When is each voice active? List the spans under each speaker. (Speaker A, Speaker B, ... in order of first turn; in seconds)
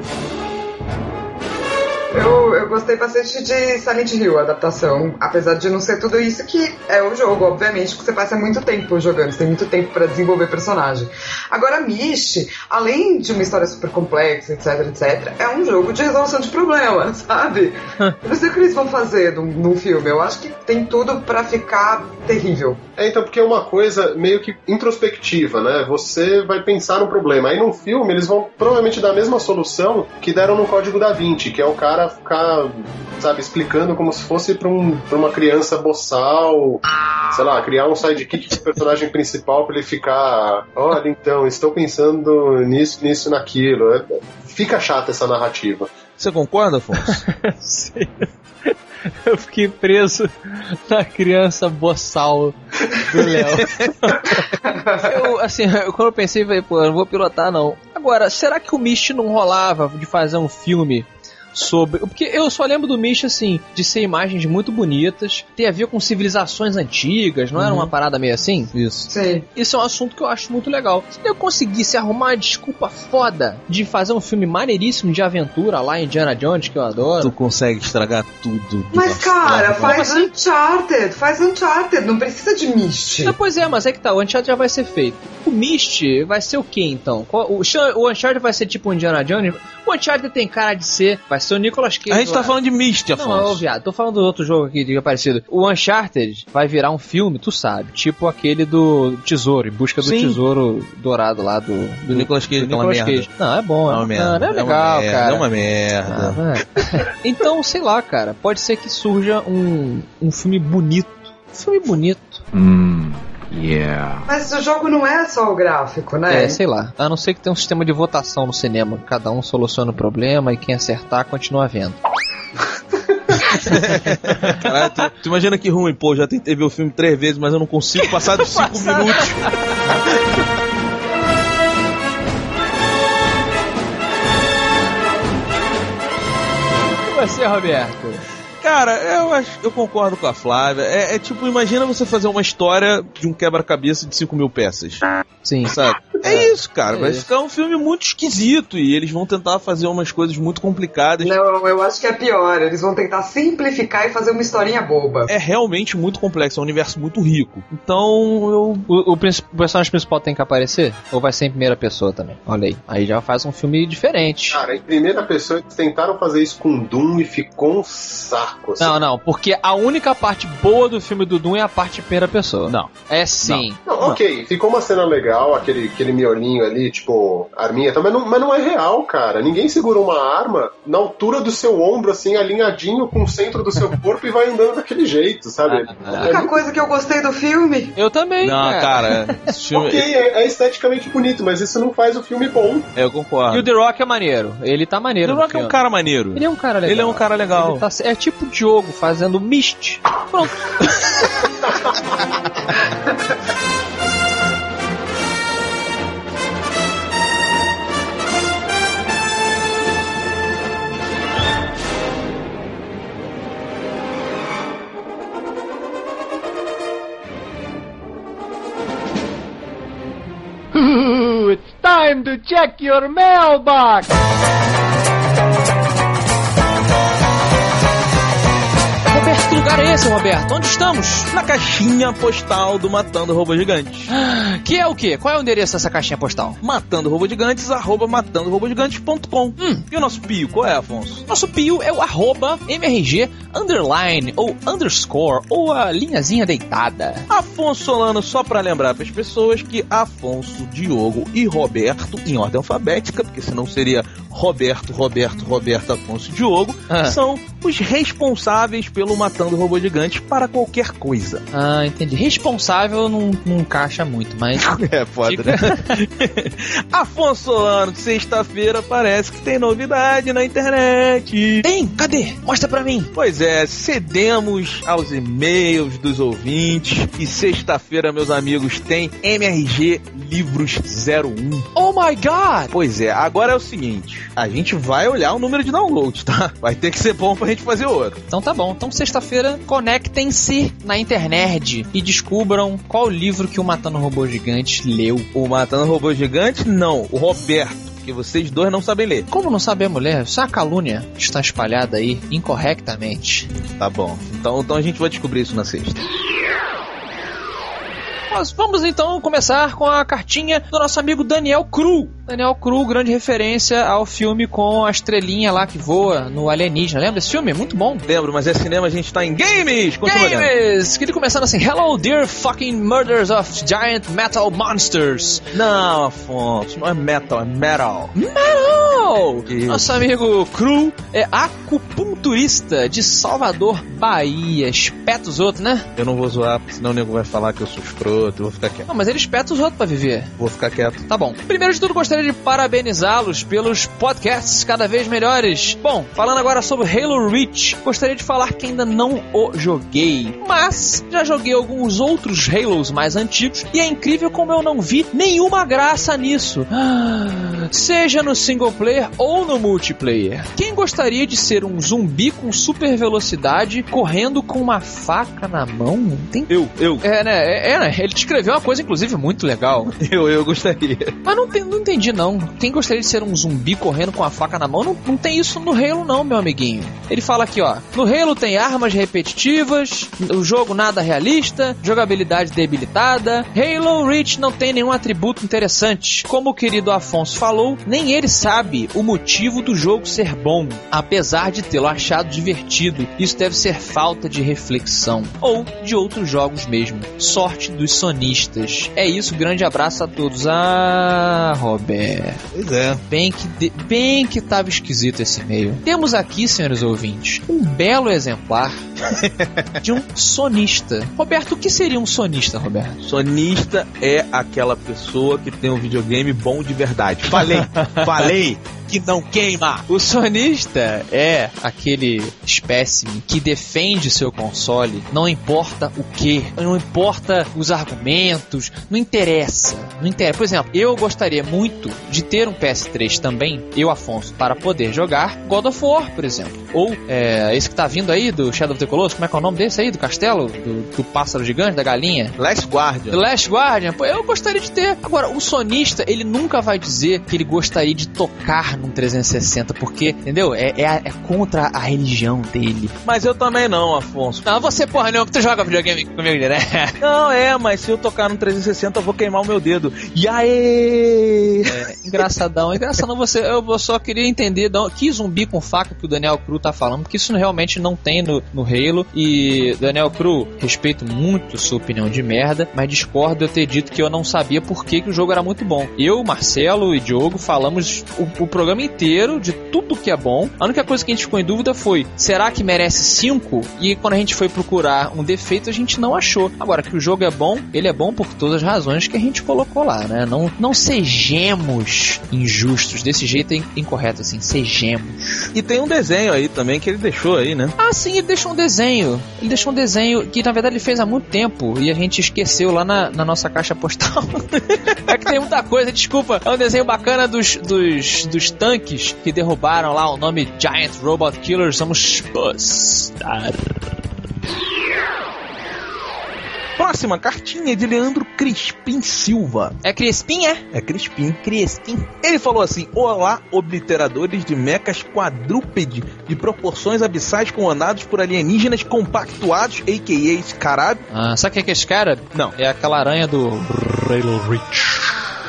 Speaker A: 2.1-22.8, 54.5-55.2, 69.1-69.5, 78.9-83.4, 114.3-116.6, 151.2-155.3, 186.2-188.0
Speaker B: 23.0-45.9, 164.5-169.0, 173.9-186.5, 189.7-192.9
Speaker C: 46.2-47.3, 67.6-67.9, 68.7-69.1, 77.2-80.0, 92.1-93.6, 100.0-100.4, 102.1-103.3, 103.9-106.4, 123.5-129.5, 138.6-145.0, 145.7-151.3, 155.3-158.8, 172.7-174.2, 188.4-190.1, 192.9-193.7, 195.2-197.8, 231.3-234.1, 236.6-241.3, 247.3-261.4, 264.6-271.6, 273.1-281.7, 282.7-288.2, 295.4-299.3, 303.8-306.0, 318.1-320.5, 325.5-328.1, 329.5-330.0, 335.9-338.9, 340.4-341.1, 366.5-367.0, 370.0-371.1, 402.5-403.0, 409.1-409.7, 413.0-419.9, 442.4-443.2, 453.0-454.5, 457.0-461.8, 495.5-497.8, 516.8-519.8, 520.7-531.0
Speaker D: 47.1-54.5, 55.0-68.7, 69.6-77.3, 79.8-80.3, 83.2-92.5, 93.1-105.5, 106.1-112.4, 116.3-122.0, 128.0-129.8, 137.1-138.2, 145.4-147.3, 158.9-164.6, 168.8-173.8, 185.9-186.3, 188.0-189.4, 193.5-195.8, 196.3-200.9, 229.1-231.3, 234.1-236.6, 241.3-247.3, 256.9-257.1, 261.5-264.7, 265.3-266.0, 271.6-273.1, 281.8-282.7, 288.3-295.3, 299.3-303.5, 308.3-318.1, 320.1-325.4, 328.1-335.9, 338.9-340.3, 341.1-366.5, 367.0-369.9, 371.2-402.4, 403.1-408.9, 409.8-413.0, 417.6-418.1, 419.9-442.4, 443.1-452.9, 454.5-457.0, 461.6-495.5, 497.8-513.8, 519.8-520.6, 531.1-535.2
Speaker E: 221.5-224.0